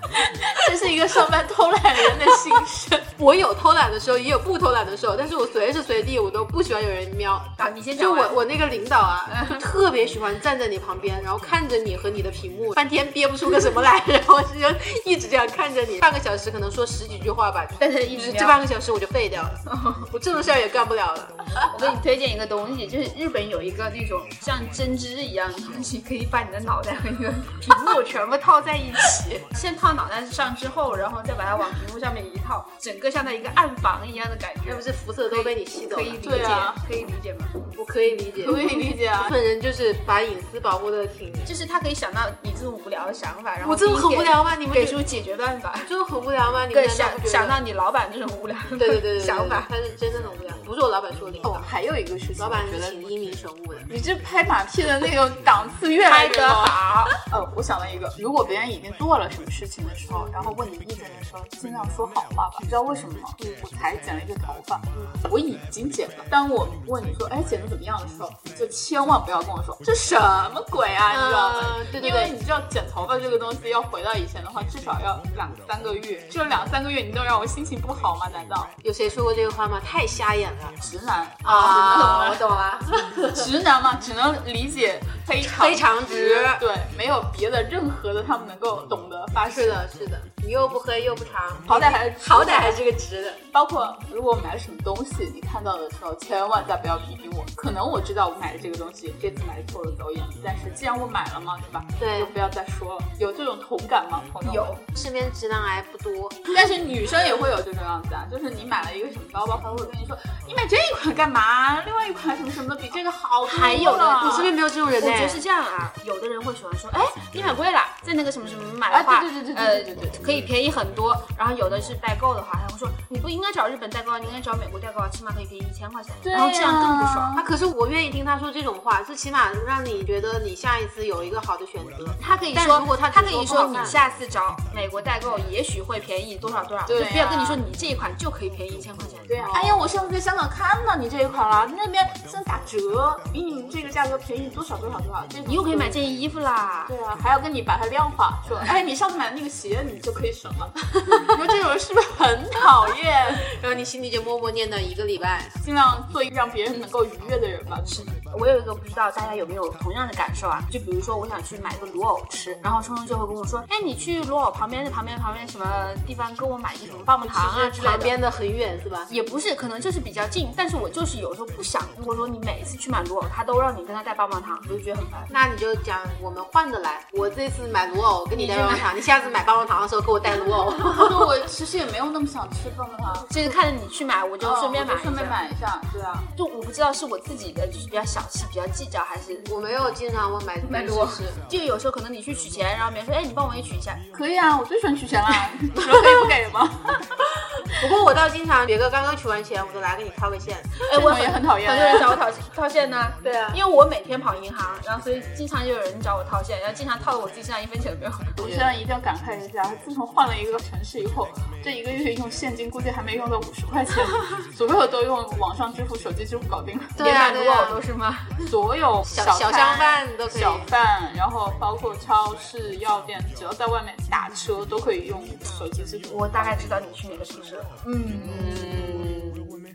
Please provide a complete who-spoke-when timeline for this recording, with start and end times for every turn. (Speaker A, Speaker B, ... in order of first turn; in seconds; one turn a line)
Speaker A: 0.2-3.1
Speaker B: 3.2-19.6
Speaker C: 7.6-8.4
Speaker C: 9.3-9.6
Speaker C: 17.8-18.6
Speaker C: 19.7-20.1
Speaker B: 20.1-21.7
Speaker C: 21.7-37.5
Speaker B: 34.6-36.5
Speaker A: 36.2-36.8
Speaker B: 37.7-41.5
Speaker A: 38.4-39.3
Speaker C: 41.4-45.9
Speaker B: 43.6-45.0
Speaker B: 45.8-47.6
Speaker C: 46.7-49.7
Speaker B: 48.8-51.7
Speaker A: 51.4-53.1
Speaker B: 52.4-53.9
Speaker A: 53.9-78.7
Speaker C: 56.0-57.1
Speaker B: 60.1-60.4
Speaker B: 64.9-65.2
Speaker B: 71.1-72.3
Speaker B: 78.8-80.8
Speaker A: 80.8-82.5
Speaker B: 81.4-83.5
Speaker A: 83.3-89.8
Speaker B: 85.4-86.6
Speaker B: 89.5-93.4
Speaker A: 91.7-92.8
Speaker A: 93.5-104.8
Speaker B: 102.0-102.3
Speaker C: 104.4-104.8
Speaker B: 104.9-106.4
Speaker A: 106.5-114.5
Speaker C: 113.4-127.4
Speaker B: 113.7-115.4
Speaker A: 118.9-120.3
Speaker A: 126.2-127.4
Speaker B: 127.3-134.0
Speaker C: 132.2-139.8
Speaker A: 136.8-137.6
Speaker A: 139.3-146.0
Speaker C: 145.5-146.9
Speaker A: 146.9-153.4
Speaker B: 151.1-151.3
Speaker B: 153.6-155.5
Speaker A: 155.6-157.9
Speaker C: 157.9-168.2
Speaker A: 162.3-162.6
Speaker B: 167.3-169.1
Speaker C: 169.1-175.3
Speaker B: 175.3-181.2
Speaker C: 178.3-178.9
Speaker A: 180.8-183.3
Speaker C: 183.3-185.4
Speaker A: 184.4-186.3
Speaker C: 186.3-189.6
Speaker B: 189.5-191.4
Speaker C: 190.6-194.1
Speaker A: 194.1-197.1
Speaker B: 197.8-200.9
Speaker C: 200.9-208.8
Speaker A: 200.9-202.2
Speaker B: 203.2-203.6
Speaker A: 208.4-217.3
Speaker B: 216.9-217.8
Speaker C: 217.0-218.5
Speaker A: 218.4-226.6
Speaker B: 219.1-220.7
Speaker C: 226.1-228.7
Speaker A: 227.8-228.7
Speaker B: 228.2-229.6